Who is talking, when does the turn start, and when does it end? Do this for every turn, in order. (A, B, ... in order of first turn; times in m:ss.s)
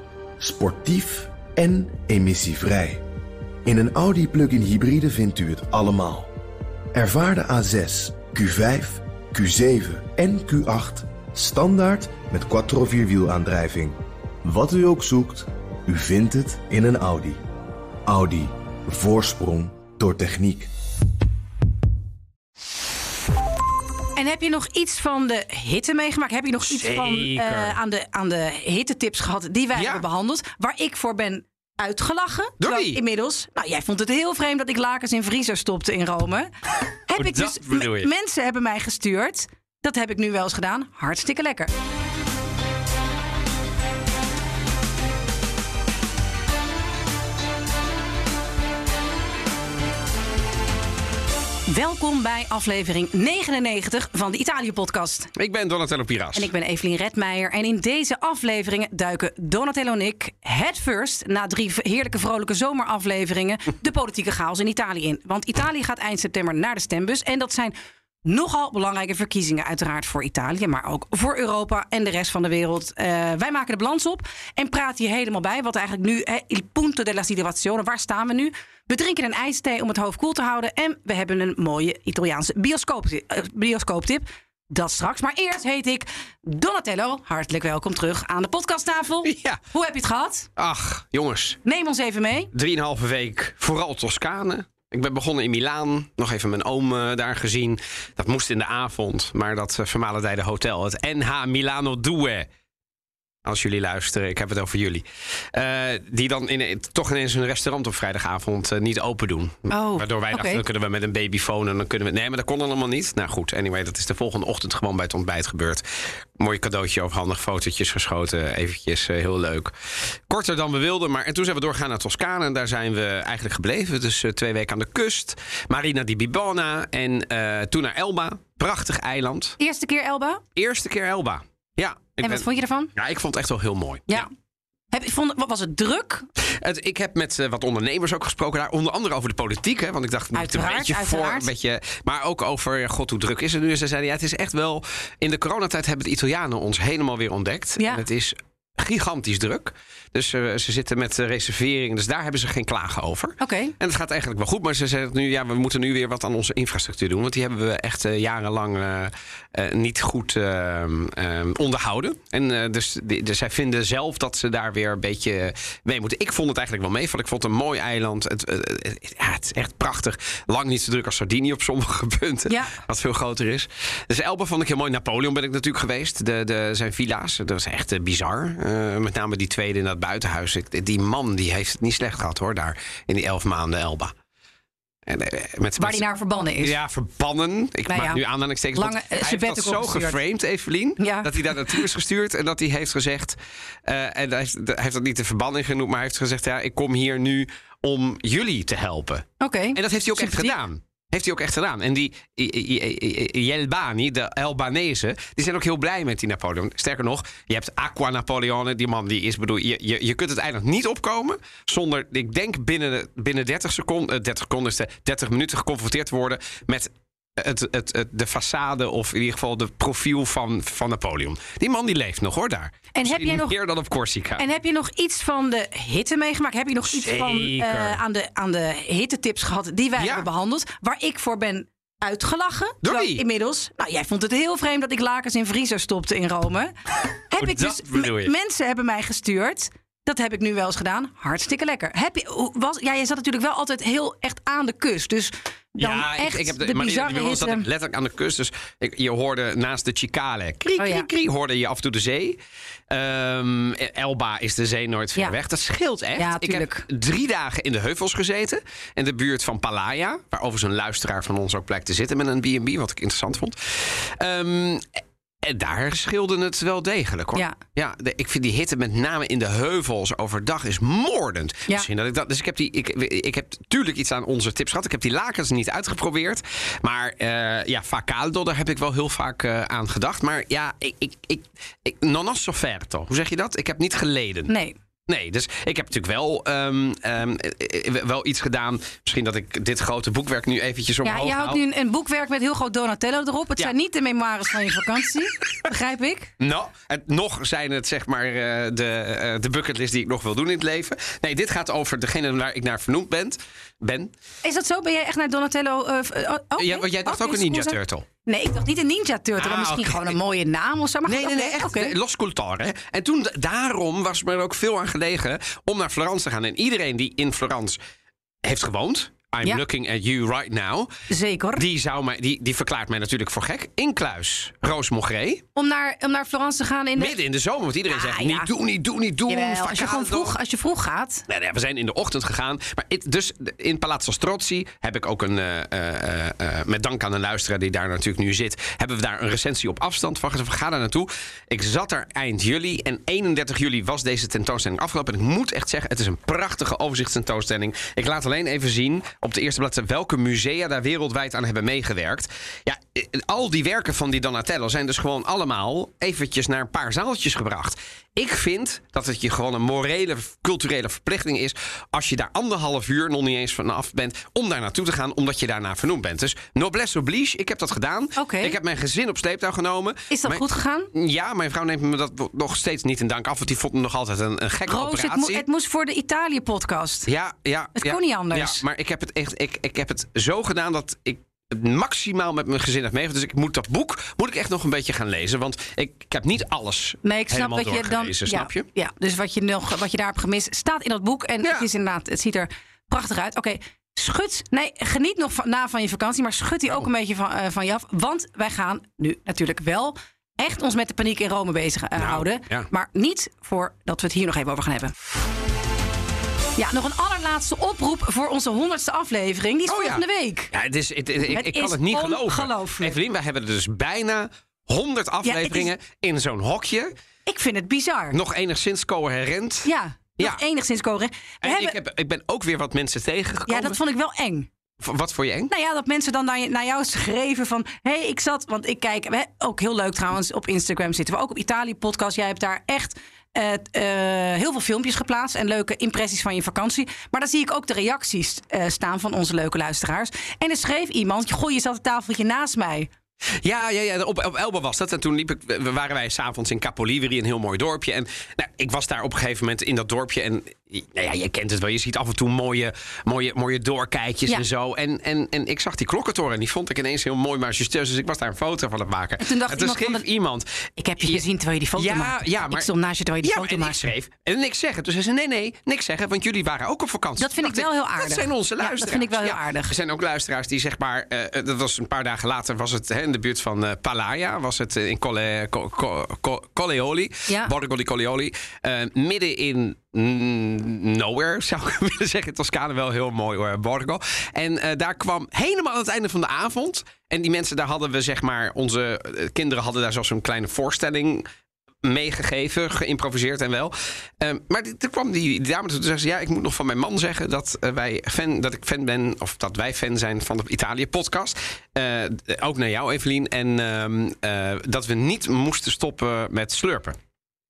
0:00.4-0:03.0 A
0:03.6-0:06.3 A
0:06.9-0:17.4 A
0:18.0-0:20.7 A
0:24.2-0:36.5 B
0:26.7-0:27.8 C
0:29.7-0:30.0 C
0:32.6-0:33.0 C
0:37.1-0:41.7 B
0:37.2-0:38.1 C
0:51.7-0:55.3 B
0:55.4-0:56.5 C
0:56.3-1:07.7 B
1:08.2-1:30.5 B
1:29.2-1:29.6 C
1:30.6-1:31.6 C
1:31.6-1:32.5 B
1:32.5-1:42.5 C
1:43.4-1:55.8 C
1:49.7-1:50.6 B
1:56.4-1:59.7 C
2:00.3-2:09.6 C
2:09.6-2:10.4 B
2:10.5-2:14.3 C
2:12.2-2:12.9 B
2:14.9-2:16.3 B
2:16.4-3:04.1 C
2:20.3-2:21.5 B
2:33.4-2:33.7 B
2:52.5-2:52.7 B
3:05.0-3:44.4 C
3:05.8-3:06.7 B
3:07.9-3:08.2 B
3:08.7-3:10.2 B
3:11.0-3:11.8 B
3:19.4-3:20.6 B
3:42.9-3:43.5 B
3:44.4-3:56.7 B
3:46.9-3:48.0 C
3:50.0-3:50.2 C
3:52.8-3:53.2 C
3:57.3-4:07.6 B
3:57.4-3:58.3 C
4:05.8-4:12.4 C
4:10.8-4:11.1 B
4:12.9-4:24.9 C
4:16.2-4:16.8 B
4:25.4-4:44.5 C
4:44.5-4:44.7 B
4:45.1-4:51.6 C
4:51.0-4:56.3 B
4:56.4-5:04.1 C
5:04.4-5:11.9 B
5:06.6-5:08.1 C
5:09.4-5:10.2 C
5:11.1-5:17.8 C
5:18.4-5:20.9 C
5:21.1-5:21.6 B
5:21.6-5:25.4 C
5:25.6-5:27.2 B
5:27.0-5:30.3 C
5:27.9-5:28.5 B
5:29.3-5:31.2 B
5:31.3-6:15.4 C
6:08.2-6:08.6 B
6:10.1-6:10.9 B
6:14.7-6:17.1 B
6:17.1-6:28.7 C
6:17.8-6:18.6 B
6:27.0-6:44.9 B
6:42.0-6:42.7 C
6:46.6-6:50.5 B
6:49.7-6:56.9 C
6:51.3-6:52.9 B
6:55.2-6:55.7 B
6:57.3-6:58.2 B
6:58.1-7:00.4 C
6:59.6-7:01.7 B
7:01.4-7:03.8 C
7:03.5-7:04.5 B
7:04.8-7:05.5 C
7:05.5-7:22.9 B
7:23.4-7:41.2 C
7:39.2-7:40.0 B
7:40.8-7:43.9 B
7:41.8-7:42.7 C
7:43.2-8:11.3 C
7:47.2-7:49.7 B
7:57.3-7:57.5 B
8:11.8-8:27.0 C